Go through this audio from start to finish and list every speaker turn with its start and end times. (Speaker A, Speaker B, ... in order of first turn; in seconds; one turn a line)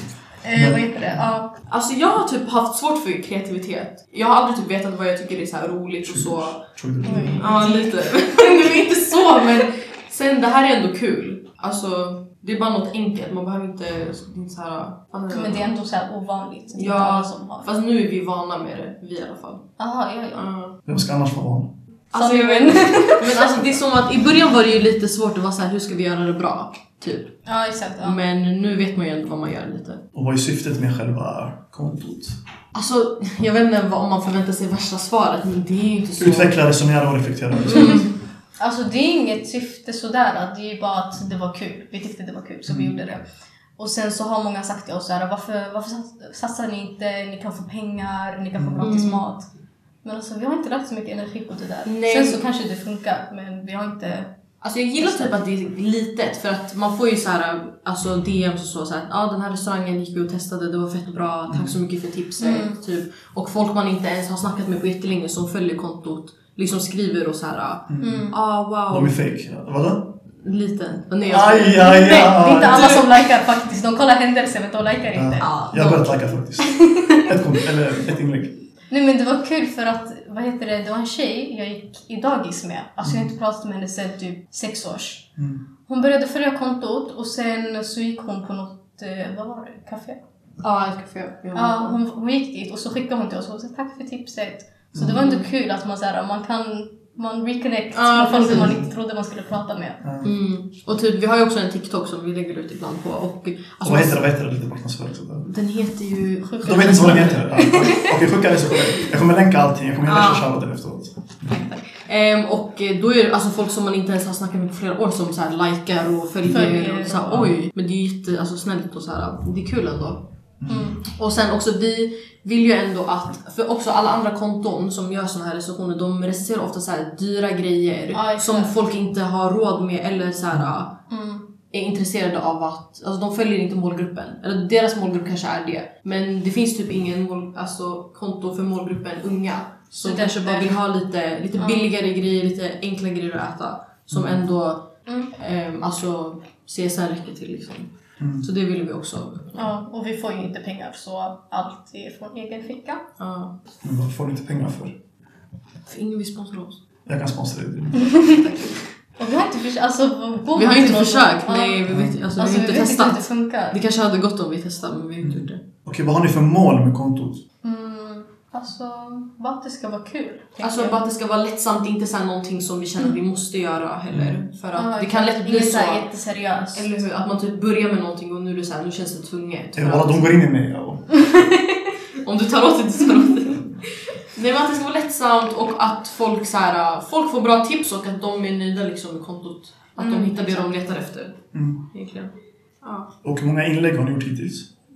Speaker A: 0.4-1.5
Speaker B: 0.5-1.2
Speaker C: 1.7-6.6
Speaker B: 6.0-7.5
Speaker A: 7.0-9.4
Speaker C: 7.4-15.7
Speaker A: 15.3-17.7
Speaker C: 16.8-19.6
Speaker A: 19.8-20.5
Speaker C: 20.3-20.8
Speaker B: 20.9-21.7
Speaker C: 22.1-27.4
Speaker A: 22.1-23.5
Speaker A: 27.4-28.2
Speaker C: 28.0-30.0
Speaker B: 30.1-32.4
Speaker C: 32.7-36.6
Speaker B: 36.2-38.1
Speaker C: 37.6-38.1
Speaker A: 37.7-38.0
Speaker A: 38.6-43.2
Speaker A: 43.8-49.5
Speaker B: 48.6-48.9
Speaker C: 48.8-49.2
Speaker A: 50.0-54.3
Speaker C: 51.8-52.4
Speaker C: 54.6-69.1
Speaker A: 55.0-55.3
Speaker B: 61.5-61.8
Speaker A: 62.4-62.8
Speaker B: 67.9-68.3
Speaker A: 68.0-68.4
Speaker B: 68.9-70.1
Speaker C: 70.4-72.1
Speaker B: 71.2-72.9
Speaker A: 71.8-75.5
Speaker C: 72.6-73.2
Speaker B: 75.1-78.5
Speaker C: 75.4-76.2
Speaker A: 76.7-77.1
Speaker A: 78.9-85.3
Speaker B: 83.0-83.3
Speaker A: 85.9-90.2
Speaker C: 90.6-92.0
Speaker A: 91.5-100.0
Speaker B: 94.9-95.2
Speaker C: 95.1-95.5
Speaker C: 97.9-98.8
Speaker B: 98.5-98.8
Speaker B: 100.0-100.3
Speaker C: 100.2-104.2
Speaker B: 103.8-105.5
Speaker C: 105.4-107.8
Speaker A: 106.4-108.1
Speaker B: 106.6-111.6
Speaker C: 110.0-110.5
Speaker C: 111.8-120.2
Speaker A: 116.4-117.5
Speaker B: 120.6-121.0
Speaker A: 120.7-121.0
Speaker C: 121.0-130.9
Speaker A: 128.1-128.7
Speaker A: 131.1-131.5
Speaker C: 131.7-149.5
Speaker A: 140.0-140.7
Speaker A: 141.6-141.9
Speaker B: 144.1-144.4
Speaker A: 145.1-145.3
Speaker B: 148.2-148.5
Speaker A: 149.5-153.0
Speaker C: 153.2-153.5
Speaker B: 153.8-154.9
Speaker C: 155.8-156.8
Speaker B: 157.1-158.2
Speaker A: 158.0-158.4
Speaker C: 158.3-158.8
Speaker A: 159.2-163.8
Speaker C: 160.6-165.6
Speaker B: 161.9-162.2
Speaker B: 165.2-167.4
Speaker A: 167.6-171.0
Speaker C: 170.6-176.1
Speaker B: 174.1-174.4
Speaker A: 174.7-177.0
Speaker C: 176.7-180.3
Speaker B: 179.8-181.1
Speaker C: 182.2-183.8
Speaker C: 184.3-191.4
Speaker A: 190.0-190.7
Speaker B: 191.5-191.8
Speaker C: 191.9-193.1
Speaker B: 193.2-194.7